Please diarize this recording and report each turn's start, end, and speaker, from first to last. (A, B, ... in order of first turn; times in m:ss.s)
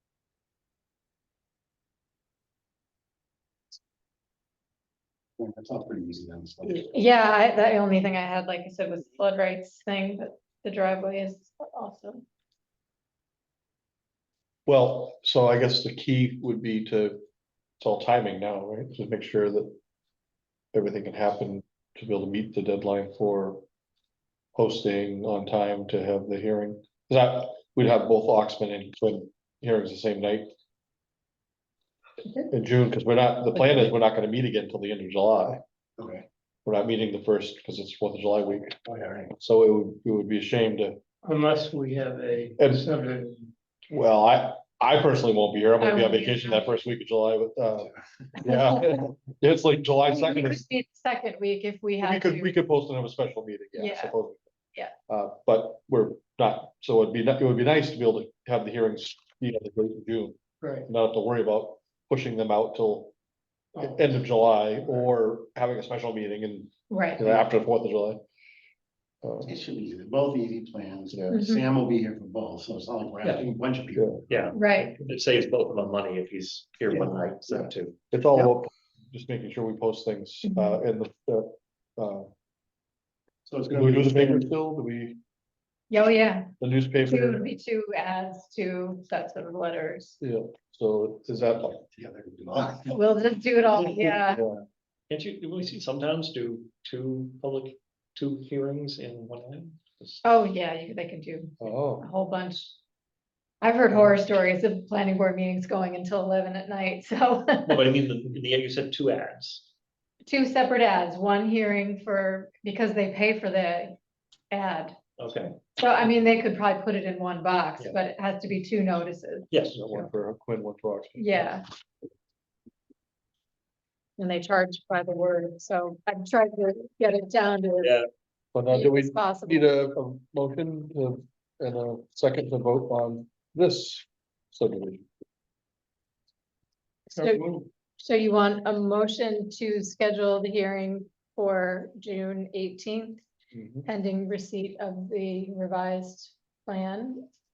0:05.4-0:07.0 A
0:06.9-0:12.2 B
0:14.7-0:17.2 C
0:17.8-0:19.8 C
0:20.7-0:23.6 C
0:24.5-0:30.5 C
0:32.5-0:35.6 C
0:36.0-0:36.2 A
0:36.7-0:38.8 C
0:38.8-0:39.3 A
0:39.4-0:41.0 C
0:41.2-0:43.5 D
0:42.6-0:42.9 C
0:43.9-0:47.9 C
0:45.8-0:46.8 B
0:48.4-0:50.6 C
0:50.1-0:52.6 B
0:52.0-0:54.4 C
0:53.8-0:54.1 B
0:55.1-1:03.1 C
1:00.6-1:00.9 D
1:03.8-1:04.0 D
1:03.8-1:08.2 C
1:06.9-1:07.2 B
1:09.2-1:09.5 C
1:09.4-1:14.5 A
1:11.3-1:11.6 B
1:14.3-1:18.0 E
1:14.5-1:15.0 B
1:18.1-1:22.3 C
1:20.4-1:20.8 B
1:23.4-1:24.5 A
1:23.7-1:25.2 C
1:25.9-1:26.5 B
1:26.6-1:27.4 C
1:27.0-1:30.2 B
1:30.2-1:31.8 C
1:31.8-1:33.1 A
1:32.9-1:34.4 B
1:33.8-1:34.1 E
1:34.3-1:34.6 C
1:35.1-1:40.2 E
1:40.2-1:42.8 B
1:41.6-1:42.0 C
1:43.6-1:47.8 B
1:47.7-1:49.7 E
1:50.2-1:54.0 B
1:54.5-1:55.0 B
1:55.2-1:55.6 E
1:55.8-2:00.1 B
1:59.5-1:59.8 E
1:59.7-2:01.6 C
2:01.2-2:01.7 B
2:04.2-2:08.0 B
2:07.8-2:08.1 E
2:08.5-2:15.0 C
2:08.7-2:09.7 B
2:17.1-2:17.7 D
2:17.2-2:17.4 B
2:18.0-2:23.2 B
2:23.5-2:23.9 C
2:23.8-2:27.2 B